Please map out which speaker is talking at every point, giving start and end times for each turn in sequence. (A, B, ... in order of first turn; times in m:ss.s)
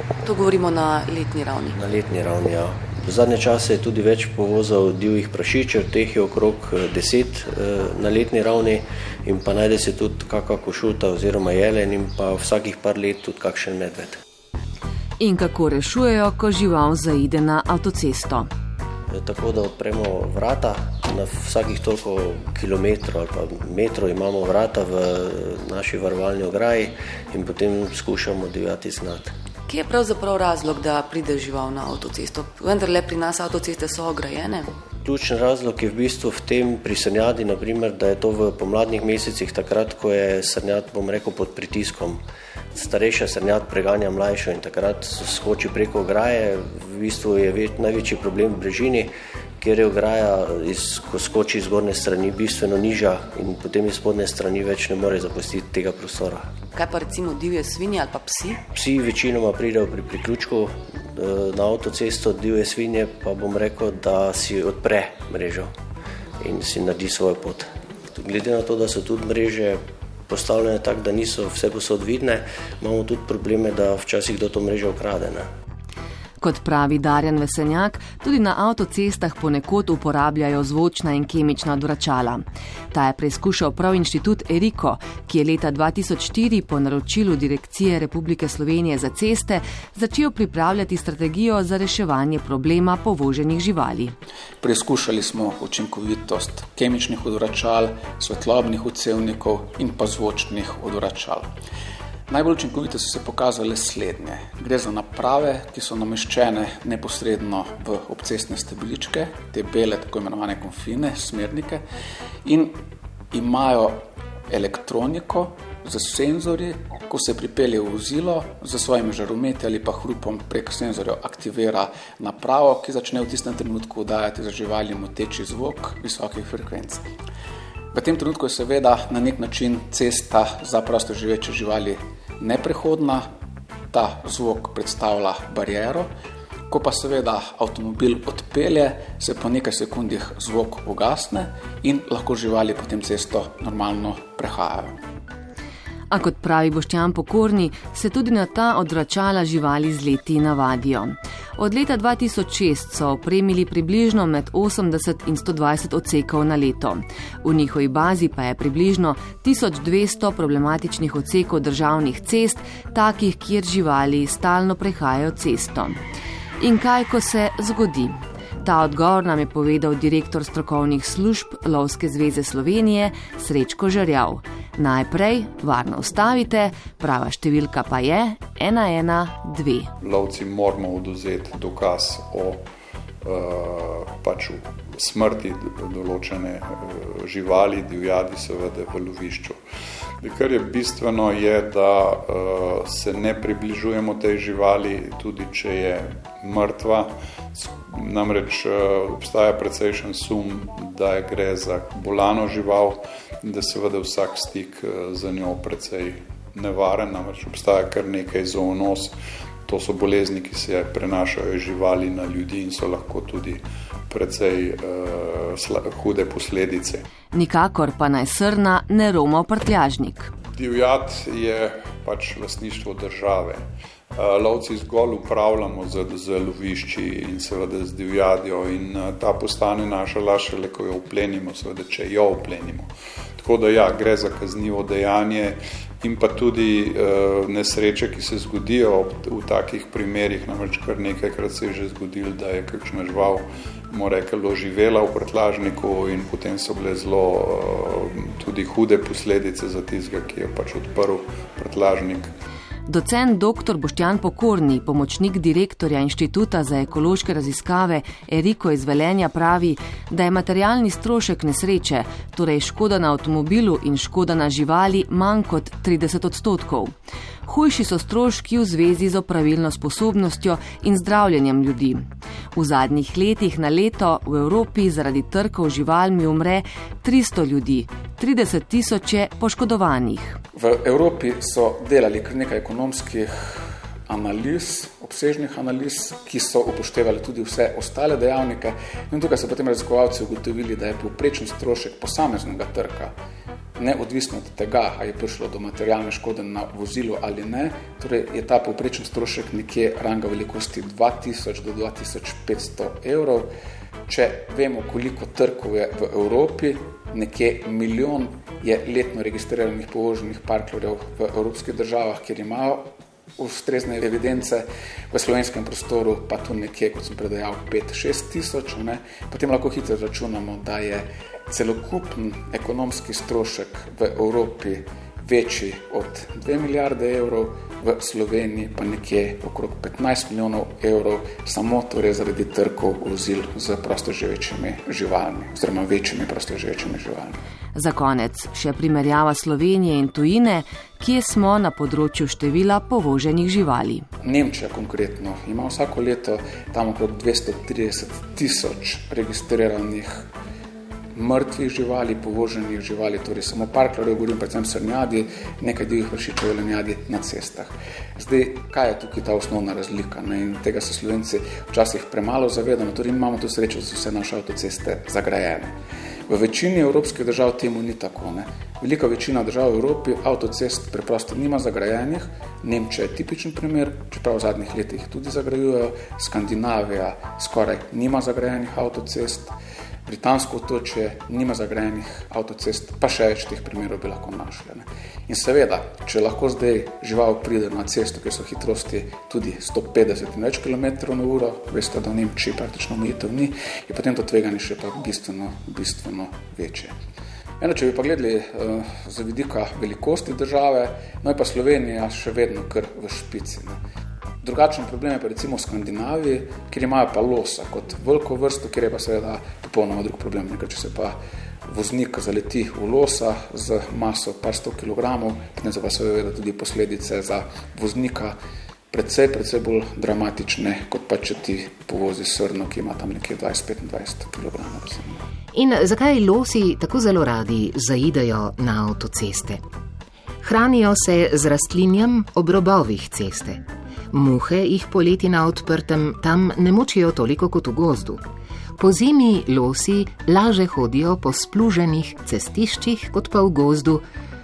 0:00.2-0:01.8 A
0:01.7-0:14.2 B
0:15.2-0:18.5 C
0:19.1-0:29.3 B
0:29.7-0:34.7 A
0:35.0-0:42.2 B
0:42.7-0:56.5 B
0:56.7-0:58.6 A
0:58.7-1:05.7 B
1:06.4-1:15.5 B
1:16.4-1:34.1 C
1:34.6-1:41.4 D
1:42.3-1:51.8 D
1:52.4-1:52.8 D
1:53.3-2:07.0 D
2:07.9-2:13.2 D
2:13.9-2:16.1 D
2:16.7-2:25.0 D
2:26.1-2:46.0 C
2:46.6-2:59.9 C
3:00.0-3:02.6 E
3:03.2-3:09.6 E
3:10.2-3:29.1 E
3:29.6-3:37.0 E
3:37.3-3:40.3 C
3:40.5-3:43.6 E
3:44.2-4:12.3 E
4:12.9-4:26.9 C
4:27.4-4:32.0 C
4:32.5-4:40.4 C
4:40.5-4:53.1 D
4:53.8-5:03.5 D
5:04.1-5:37.4 D
5:37.7-5:44.0 C
5:44.2-5:50.2 D
5:51.1-6:05.7 D
6:06.3-6:19.5 D
6:20.0-6:36.9 D
6:37.6-6:43.8 D
6:44.4-6:51.2 D
6:51.7-6:58.4 D
6:58.9-7:05.2 D
7:05.5-7:09.6 F
7:10.4-7:18.2 F
7:18.8-7:24.0 F